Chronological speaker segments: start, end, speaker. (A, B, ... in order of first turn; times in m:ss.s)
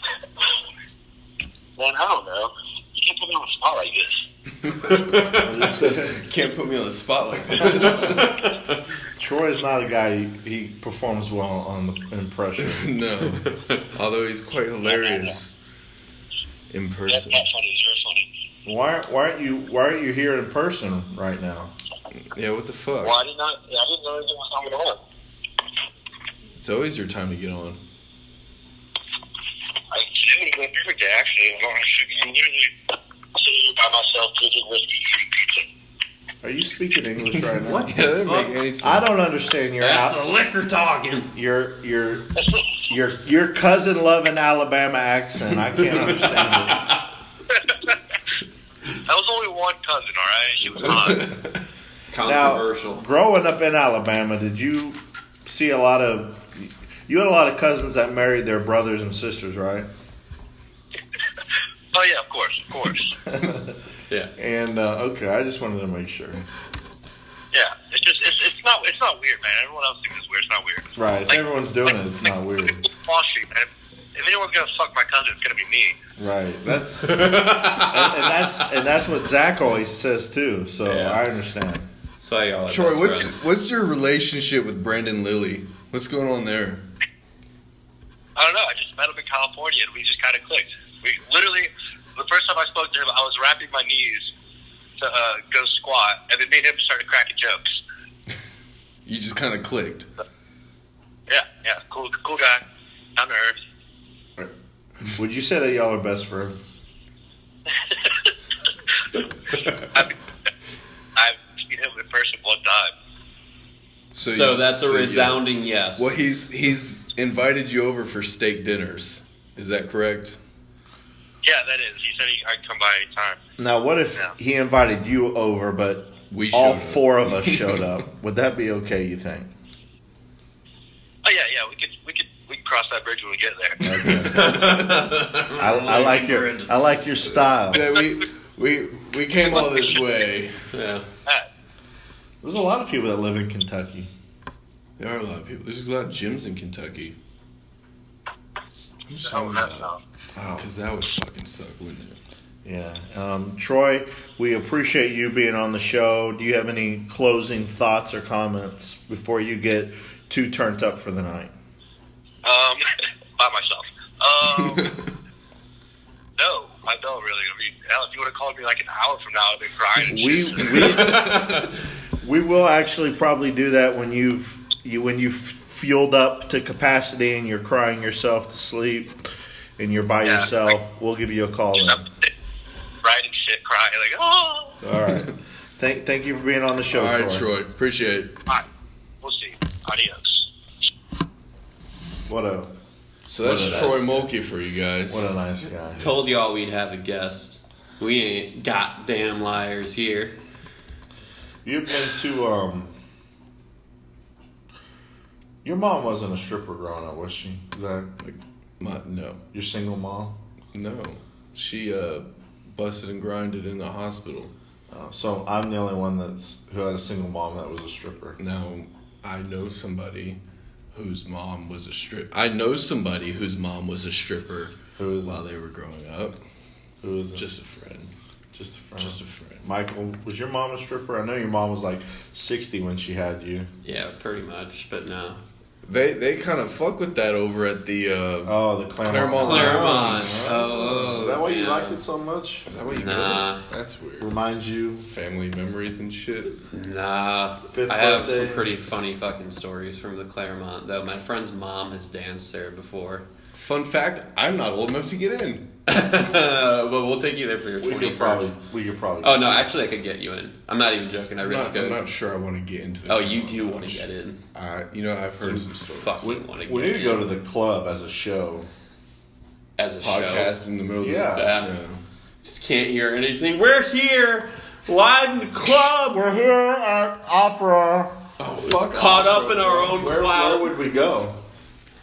0:01.8-0:04.2 A
0:04.7-0:05.0 B
0:04.8-0:05.7 C
0:05.3-0:06.2 D
0:06.0-0:08.4 B
0:07.6-0:08.8 C
0:09.2-0:13.0 D
0:12.6-0:15.6 B
0:13.4-0:13.8 C
0:14.8-0:15.3 A
0:16.7-0:17.4 B
0:17.1-0:18.3 A
0:18.6-0:21.7 D
0:22.2-0:23.2 B
0:23.0-0:25.0 A
0:26.6-0:27.8 B
0:29.9-0:32.7 A
0:33.3-0:35.6 A
0:36.4-0:38.2 D
0:37.6-0:39.1 B
0:37.7-0:38.5 C
0:38.8-0:40.2 D
0:39.8-0:41.3 C
0:41.3-0:42.3 D
0:42.4-0:42.6 A
0:42.9-0:47.0 D
0:47.5-0:47.9 A
0:49.0-0:51.4 A
0:51.0-0:51.5 B
0:52.1-0:53.0 C
0:52.2-0:59.9 D
1:01.9-1:03.1 A
1:03.2-1:03.8 D
1:04.4-1:06.4 D
1:07.5-1:11.4 A
1:11.0-1:12.8 D
1:12.8-1:16.0 A
1:16.2-1:21.9 D
1:17.0-1:18.6 C
1:20.8-1:21.2 C
1:22.2-1:23.4 C
1:22.7-1:26.8 B
1:28.4-1:34.3 A
1:35.0-1:37.7 A
1:39.0-1:40.1 B
1:41.3-1:42.6 A
1:43.2-1:43.6 A
1:45.1-1:46.6 D
1:49.6-1:50.1 A
1:51.2-1:52.9 A
1:54.1-2:00.4 B
1:54.2-1:56.1 C
2:01.4-2:03.4 A
2:03.6-2:09.5 D
2:06.3-2:07.9 B
2:11.2-2:14.0 A
2:13.8-2:14.6 D
2:14.0-2:16.1 B
2:14.3-2:16.7 C
2:15.6-2:17.9 D
2:17.6-2:20.6 B
2:20.7-2:21.1 C
2:22.4-2:24.1 D
2:25.0-2:27.1 B
2:29.1-2:29.9 B
2:29.2-2:30.0 A
2:30.4-2:30.7 D
2:30.6-2:32.2 B
2:32.6-2:41.5 D
2:42.4-2:45.0 A
2:46.4-2:50.9 A
2:50.0-2:51.6 D
2:50.7-2:51.7 C
2:50.8-2:51.5 B
2:52.2-2:59.2 D
2:59.8-3:02.0 D
3:00.2-3:00.6 A
3:01.8-3:02.3 A
3:03.0-3:04.8 A
3:04.8-3:07.5 D
3:06.9-3:08.4 B
3:09.2-3:10.4 A
3:12.3-3:12.7 D
3:13.3-3:15.3 B
3:13.3-3:14.0 D
3:13.5-3:14.0 C
3:15.1-3:16.0 D
3:16.0-3:20.4 C
3:21.6-3:22.9 D
3:25.6-3:28.1 D
3:28.2-3:29.4 B
3:29.5-3:30.4 D
3:30.7-3:34.5 B
3:34.9-3:38.4 D
3:38.4-3:40.4 B
3:40.9-3:46.4 B
3:45.0-3:45.4 D
3:47.0-3:47.4 D
3:47.3-3:48.1 B
3:48.5-3:53.7 D
3:49.0-3:49.6 B
3:53.8-3:55.4 C
3:55.8-4:00.6 B
3:58.4-4:02.7 D
3:59.4-4:02.0 C
4:02.6-4:04.3 B
4:02.8-4:03.6 C
4:04.2-4:05.0 D
4:05.0-4:06.6 B
4:06.7-4:13.2 C
4:07.7-4:08.7 D
4:13.5-4:15.7 B
4:15.9-4:18.6 C
4:17.8-4:19.7 D
4:19.2-4:22.0 C
4:21.4-4:26.3 B
4:23.1-4:24.4 C
4:25.9-4:27.3 C
4:26.2-4:28.7 D
4:29.8-4:30.5 C
4:30.0-4:32.0 B
4:31.0-4:31.5 D
4:31.3-4:31.7 C
4:32.4-4:36.2 C
4:35.6-4:38.2 D
4:38.4-4:39.9 B
4:38.6-4:40.8 C
4:39.9-4:41.4 D